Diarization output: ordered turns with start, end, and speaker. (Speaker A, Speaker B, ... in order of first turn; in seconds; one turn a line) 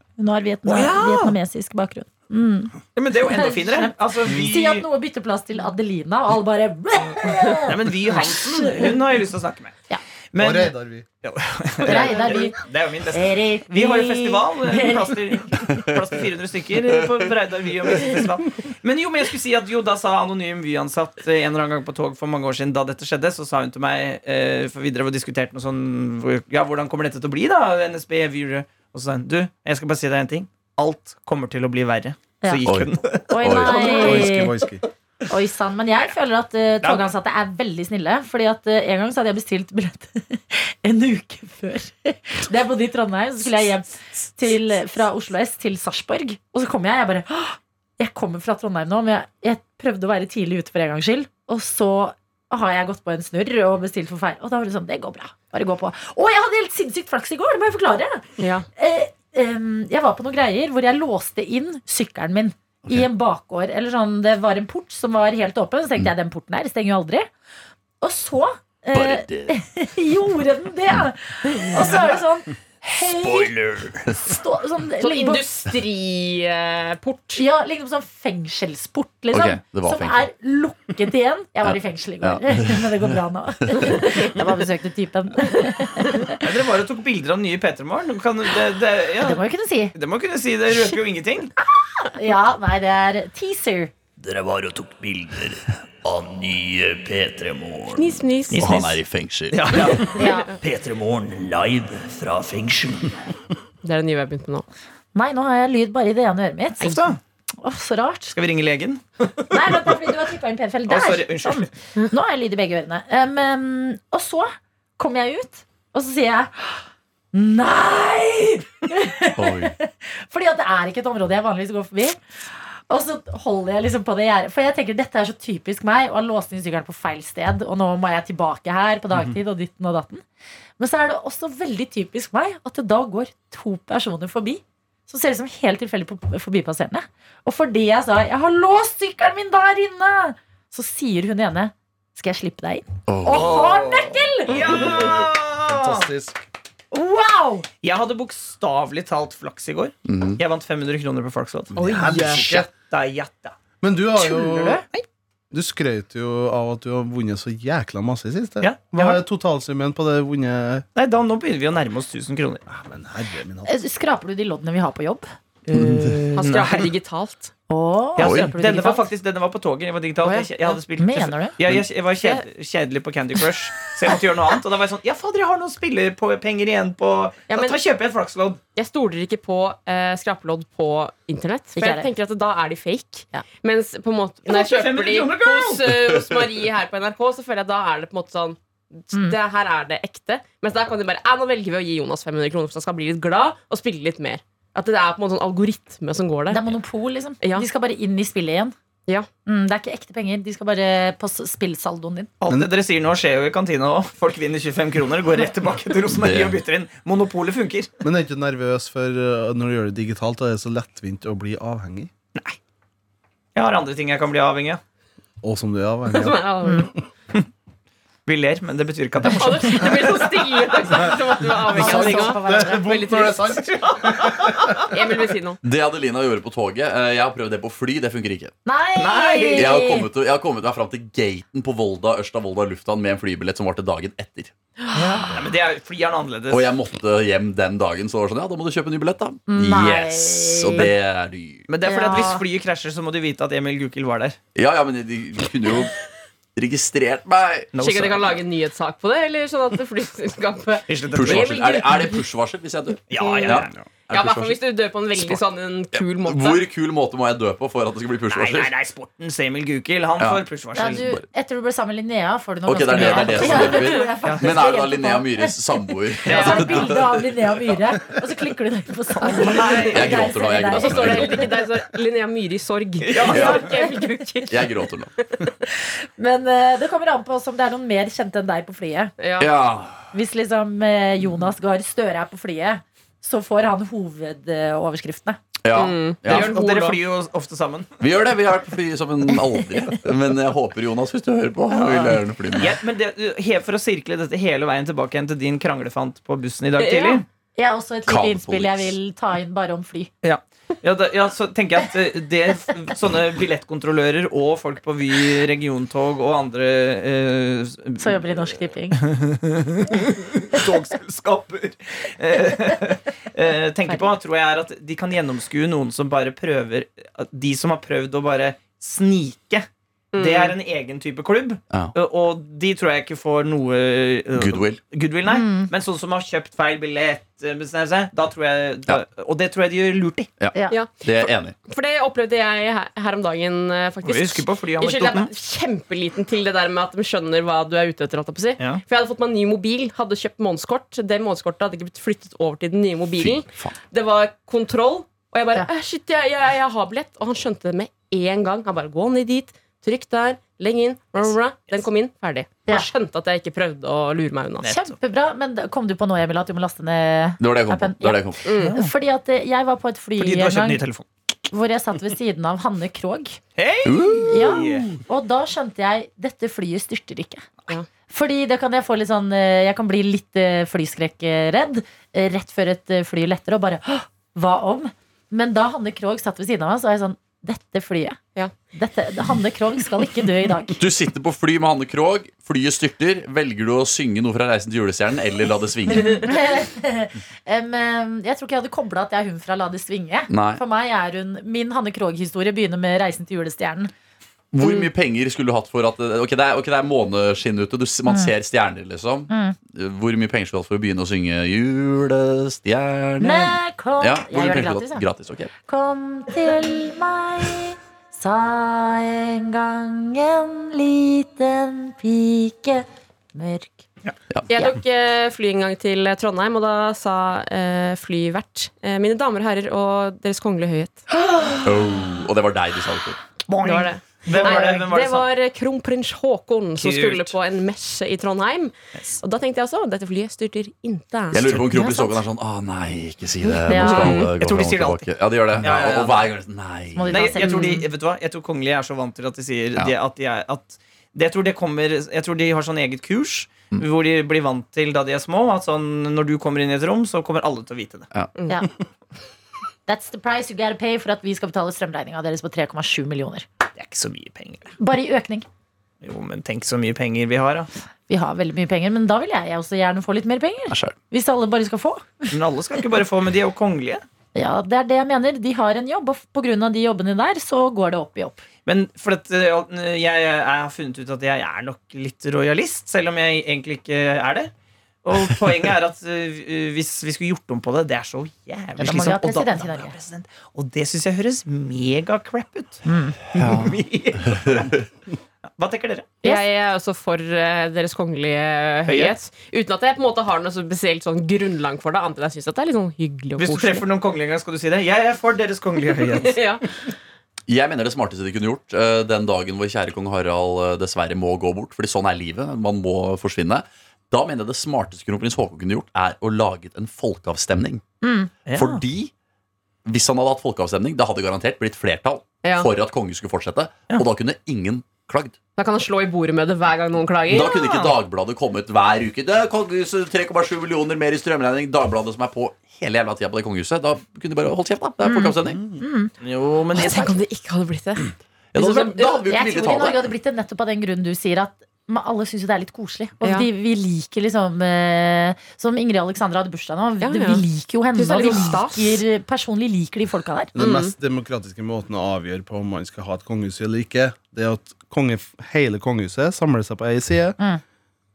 Speaker A: 0.2-9.0
Speaker B: 0.7-1.4
Speaker B: 3.0-4.9
Speaker B: 7.7-9.8
Speaker B: 10.3-34.3
Speaker C: 10.4-11.1
Speaker A: 11.8-12.6
Speaker A: 13.1-15.6
Speaker D: 32.6-34.1
Speaker A: 33.3-34.6
Speaker C: 33.8-34.8
Speaker A: 35.3-67.3
Speaker E: 58.4-58.7
Speaker A: 68.0-73.5
Speaker D: 68.9-69.6
Speaker F: 73.0-74.2
Speaker A: 74.2-75.5
Speaker E: 75.0-77.4
Speaker A: 77.4-86.4
Speaker D: 79.3-80.3
Speaker D: 81.6-83.1
Speaker D: 83.7-84.0
Speaker B: 86.4-89.4
Speaker A: 89.2-89.9
Speaker B: 90.0-91.5
Speaker A: 91.7-93.9
Speaker F: 94.2-98.2
Speaker E: 98.0-99.0
Speaker B: 98.5-99.0
Speaker D: 98.6-100.2
Speaker B: 99.5-100.2
Speaker A: 100.2-100.5
Speaker F: 100.3-103.2
Speaker E: 103.8-104.7
Speaker A: 105.1-107.0
Speaker B: 106.8-107.2
Speaker A: 107.6-108.4
Speaker B: 108.3-110.0
Speaker A: 109.5-122.2
Speaker B: 110.9-111.7
Speaker D: 119.4-119.7
Speaker A: 122.9-130.2
Speaker A: 130.8-144.9
Speaker D: 143.1-143.7
Speaker B: 143.3-146.1
Speaker C: 144.6-146.4
Speaker A: 146.9-147.7
Speaker B: 147.8-153.6
Speaker D: 150.1-150.4
Speaker C: 151.8-152.7
Speaker E: 151.8-152.4
Speaker C: 153.8-154.8
Speaker A: 154.2-154.8
Speaker C: 155.5-160.8
Speaker B: 158.6-159.2
Speaker B: 160.9-162.6
Speaker C: 162.7-163.8
Speaker A: 163.7-166.1
Speaker E: 165.7-167.5
Speaker D: 165.8-166.2
Speaker B: 166.4-166.9
Speaker A: 167.7-169.1
Speaker B: 168.2-178.6
Speaker D: 168.2-168.5
Speaker E: 170.2-170.7
Speaker A: 171.0-171.6
Speaker E: 177.5-177.8
Speaker E: 178.8-196.7
Speaker A: 181.8-182.1
Speaker B: 184.5-185.9
Speaker A: 196.5-198.8
Speaker E: 197.4-197.7
Speaker A: 199.5-202.3
Speaker B: 202.4-207.9
Speaker D: 206.1-206.6
Speaker C: 208.0-212.1
Speaker B: 213.6-214.8
Speaker C: 215.4-216.9
Speaker E: 216.1-216.9
Speaker B: 218.3-220.3
Speaker E: 219.3-223.6
Speaker C: 221.6-224.8
Speaker A: 221.7-223.2
Speaker B: 223.6-224.8
Speaker E: 224.9-225.6
Speaker D: 225.6-228.5
Speaker A: 228.7-230.1
Speaker B: 229.0-229.8
Speaker D: 229.6-234.5
Speaker A: 234.9-235.3
Speaker B: 235.2-236.7
Speaker D: 236.5-241.7
Speaker A: 239.5-240.9
Speaker B: 241.7-244.4
Speaker A: 241.8-242.4
Speaker D: 244.6-245.9
Speaker D: 246.6-247.7
Speaker B: 247.7-248.4
Speaker E: 247.8-252.2
Speaker B: 250.9-251.6
Speaker D: 251.1-254.6
Speaker B: 253.1-253.8
Speaker E: 253.2-256.6
Speaker D: 255.1-255.4
Speaker D: 255.9-258.7
Speaker B: 258.3-261.1
Speaker D: 260.2-261.2
Speaker A: 260.8-265.6
Speaker D: 262.6-267.2
Speaker B: 263.0-264.5
Speaker A: 266.2-271.5
Speaker B: 266.3-266.9
Speaker E: 266.3-266.8
Speaker B: 269.2-270.3
Speaker E: 269.5-269.9
Speaker D: 269.7-271.4
Speaker E: 270.7-274.7
Speaker B: 273.0-273.6
Speaker A: 273.3-274.1
Speaker D: 273.3-273.7
Speaker D: 274.5-275.1
Speaker A: 275.7-279.1
Speaker E: 279.2-279.5
Speaker D: 279.4-280.1
Speaker A: 280.1-285.4
Speaker D: 285.6-286.6
Speaker E: 285.7-287.0
Speaker B: 286.3-287.9
Speaker D: 288.0-292.8
Speaker B: 291.7-297.2
Speaker E: 296.8-297.2
Speaker A: 297.6-300.1
Speaker D: 298.1-298.9
Speaker B: 300.2-319.7
Speaker A: 308.0-309.1
Speaker E: 320.1-320.6
Speaker B: 320.2-330.3
Speaker D: 324.3-324.8
Speaker A: 325.3-325.7
Speaker D: 330.4-331.6
Speaker A: 330.5-330.8
Speaker E: 330.7-331.0
Speaker E: 331.7-354.7
Speaker B: 334.0-335.3
Speaker D: 343.2-343.8
Speaker B: 354.6-354.9
Speaker A: 354.7-360.8
Speaker D: 357.4-358.5
Speaker E: 358.4-358.8
Speaker B: 358.6-358.9
Speaker B: 360.2-361.1
Speaker A: 361.5-363.4
Speaker B: 363.6-365.0
Speaker D: 363.9-364.5
Speaker A: 364.3-367.5
Speaker A: 368.1-378.2
Speaker A: 378.7-380.8
Speaker D: 380.8-386.3
Speaker A: 385.9-393.9
Speaker E: 385.9-386.2
Speaker D: 390.3-390.6
Speaker D: 394.5-405.5
Speaker A: 399.3-399.6
Speaker A: 403.2-405.1
Speaker A: 405.7-413.8
Speaker E: 414.5-421.0
Speaker D: 421.6-423.2
Speaker B: 423.5-425.3
Speaker E: 423.6-431.8
Speaker A: 424.3-424.7
Speaker B: 426.8-427.4
Speaker D: 431.3-437.2
Speaker A: 431.7-432.2
Speaker A: 433.4-434.3
Speaker E: 433.7-434.3
Speaker B: 434.4-436.3
Speaker A: 436.9-437.9
Speaker B: 437.1-448.1
Speaker E: 437.4-437.8
Speaker E: 448.4-448.6
Speaker A: 449.9-453.4
Speaker B: 453.8-454.8
Speaker A: 454.8-455.5
Speaker B: 456.0-457.7
Speaker A: 458.1-462.3
Speaker D: 460.7-461.0
Speaker B: 462.3-464.0
Speaker A: 464.4-468.4
Speaker B: 468.7-474.5
Speaker B: 475.1-482.8
Speaker A: 478.8-480.0
Speaker A: 482.9-483.2
Speaker D: 483.3-484.8
Speaker B: 483.4-484.7
Speaker B: 485.6-486.1
Speaker E: 486.2-493.9
Speaker B: 488.9-489.1
Speaker B: 493.4-496.4
Speaker E: 495.9-496.6
Speaker D: 497.5-507.8
Speaker A: 508.0-508.3
Speaker B: 508.5-508.8
Speaker D: 508.5-509.1
Speaker D: 509.9-515.4
Speaker E: 515.6-517.6
Speaker D: 517.3-525.6
Speaker B: 517.4-517.9
Speaker A: 525.0-526.1
Speaker B: 526.2-527.0
Speaker E: 526.8-529.2
Speaker A: 526.8-527.1
Speaker D: 528.5-530.1
Speaker A: 529.3-540.5
Speaker E: 533.2-533.5
Speaker E: 537.0-539.0
Speaker C: 540.5-547.4
Speaker E: 540.6-540.9